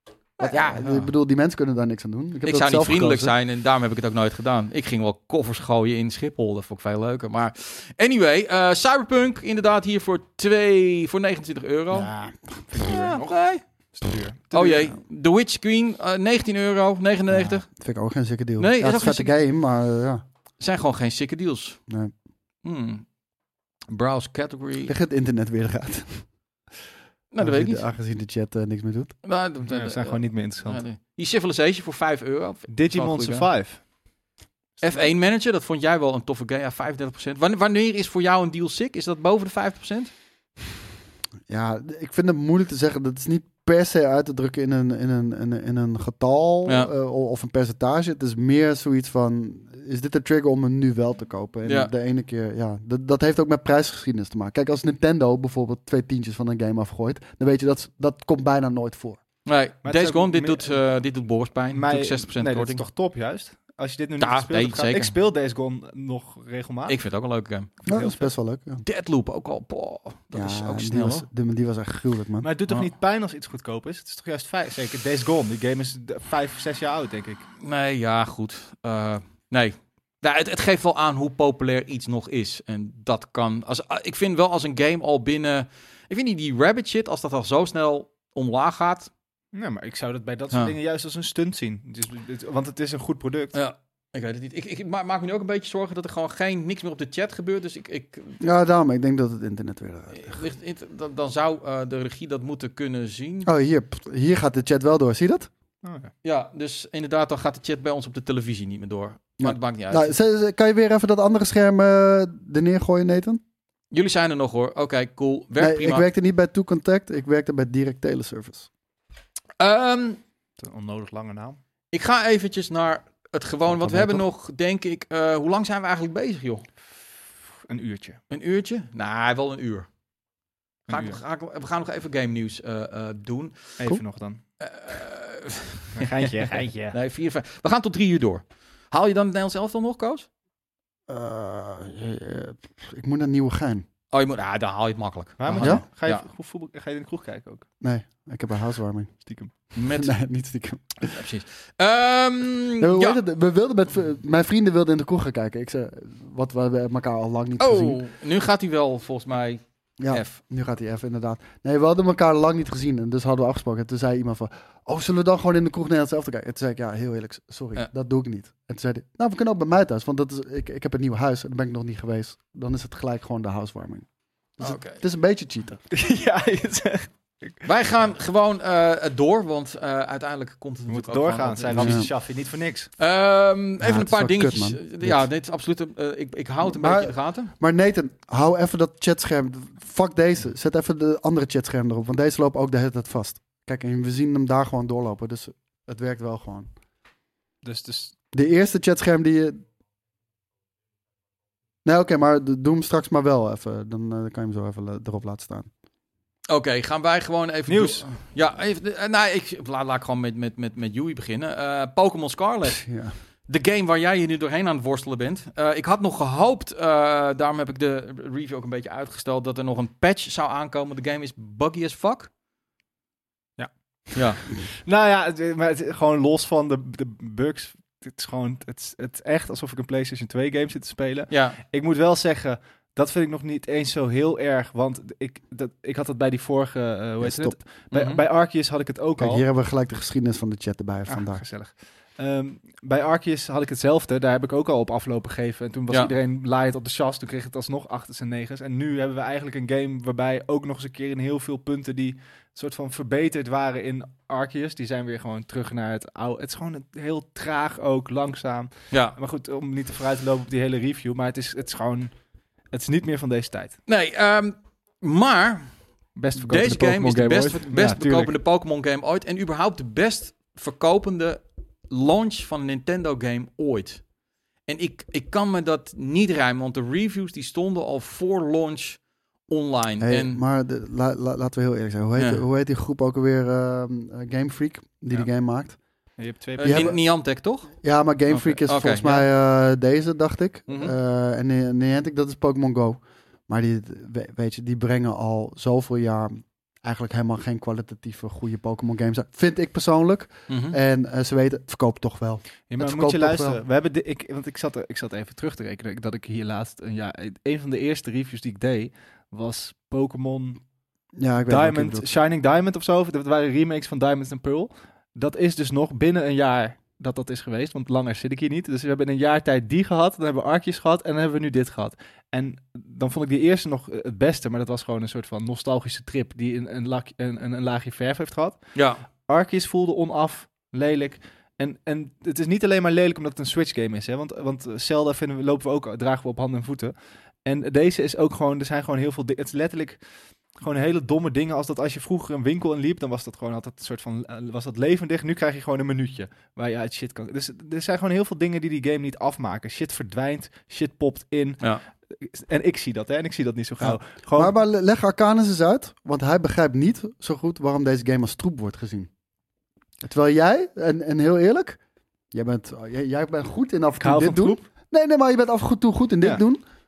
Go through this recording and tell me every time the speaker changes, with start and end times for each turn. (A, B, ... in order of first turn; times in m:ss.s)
0:00.4-0:01.1 A
0:00.4-0:03.3 B
0:02.4-0:12.1 A
0:11.9-0:13.1 B
0:12.7-0:13.2 C
0:12.8-0:13.6 A
0:14.0-0:14.9 C
0:14.5-0:17.6 A
0:17.3-0:20.2 B
0:18.6-0:19.3 A
0:20.6-0:21.8 A
0:21.9-0:22.1 B
0:22.6-0:23.0 A
0:23.9-0:24.9 A
0:24.8-0:26.2 B
0:27.3-0:27.8 A
0:27.4-0:29.1 B
0:29.2-0:33.5 A
0:29.7-0:30.8 C
0:32.7-0:33.8 C
0:34.8-0:40.1 A
0:41.5-0:59.2 B
0:51.6-0:51.9 A
0:59.4-1:02.8 A
0:59.8-1:00.7 C
1:01.7-1:07.0 C
1:04.2-1:05.1 A
1:06.9-1:07.7 A
1:07.8-1:08.3 C
1:07.8-1:08.8 B
1:08.8-1:11.2 A
1:10.3-1:12.5 B
1:12.4-1:17.4 C
1:17.6-1:29.1 A
1:29.5-1:33.5 C
1:33.5-1:38.4 A
1:38.4-1:40.4 B
1:40.2-1:43.5 A
1:43.4-1:45.5 B
1:45.8-1:46.1 C
1:46.2-1:50.1 A
1:49.4-1:53.4 B
1:53.9-1:56.0 A
1:55.6-1:58.7 B
1:59.6-2:00.2 A
2:00.6-2:01.6 C
2:01.9-2:06.6 A
2:03.7-2:04.2 B
2:07.7-2:08.2 C
2:08.3-2:09.9 A
2:10.9-2:11.2 C
2:10.9-2:13.8 A
2:13.8-2:14.4 C
2:14.6-2:20.3 A
2:15.9-2:17.0 C
2:21.1-2:23.8 B
2:24.1-2:26.2 A
2:25.4-2:27.6 C
2:27.8-2:29.1 B
2:29.2-2:29.5 C
2:29.7-2:30.1 A
2:29.9-2:31.2 B
2:31.0-2:33.2 A
2:32.8-2:38.0 B
2:37.6-2:40.4 A
2:40.0-2:54.1 B
2:54.6-2:55.8 B
2:54.6-2:55.0 A
2:55.9-2:57.6 C
2:57.6-3:02.0 A
3:00.9-3:02.9 C
3:01.7-3:02.1 B
3:03.0-3:07.5 A
3:03.8-3:05.2 B
3:06.6-3:16.7 B
3:17.6-3:18.1 C
3:18.3-3:19.6 B
3:21.8-3:25.7 B
3:26.5-3:32.8 A
3:27.7-3:28.0 C
3:32.7-3:33.1 B
3:33.5-3:42.3 A
3:44.1-3:44.4 A
3:44.8-3:59.4 C
3:51.3-3:51.6 A
3:57.2-3:57.6 B
3:57.9-3:58.2 A
3:59.2-4:01.4 B
4:01.1-4:22.1 C
4:18.9-4:19.2 A
4:22.7-4:23.8 C
4:23.9-4:25.7 A
4:26.2-4:28.3 C
4:26.4-4:34.0 A
4:34.7-4:40.4 A
4:40.0-4:45.8 B
4:42.2-4:42.4 A
4:46.2-4:46.9 C
4:46.6-4:47.7 A
4:46.6-4:47.0 B
4:47.8-5:03.6 B
4:48.3-4:49.3 A
4:50.7-4:50.9 A
5:00.5-5:00.8 A
5:02.7-5:10.6 C
5:11.2-5:12.1 B
5:11.5-5:28.6 C
5:28.7-5:29.0 A
5:29.2-5:36.9 C
5:37.4-5:40.0 C
5:40.6-5:51.6 C
5:52.1-5:54.5 C
5:53.8-5:59.1 B
6:00.0-6:01.8 B
6:02.3-6:06.6 B
6:04.0-6:04.6 C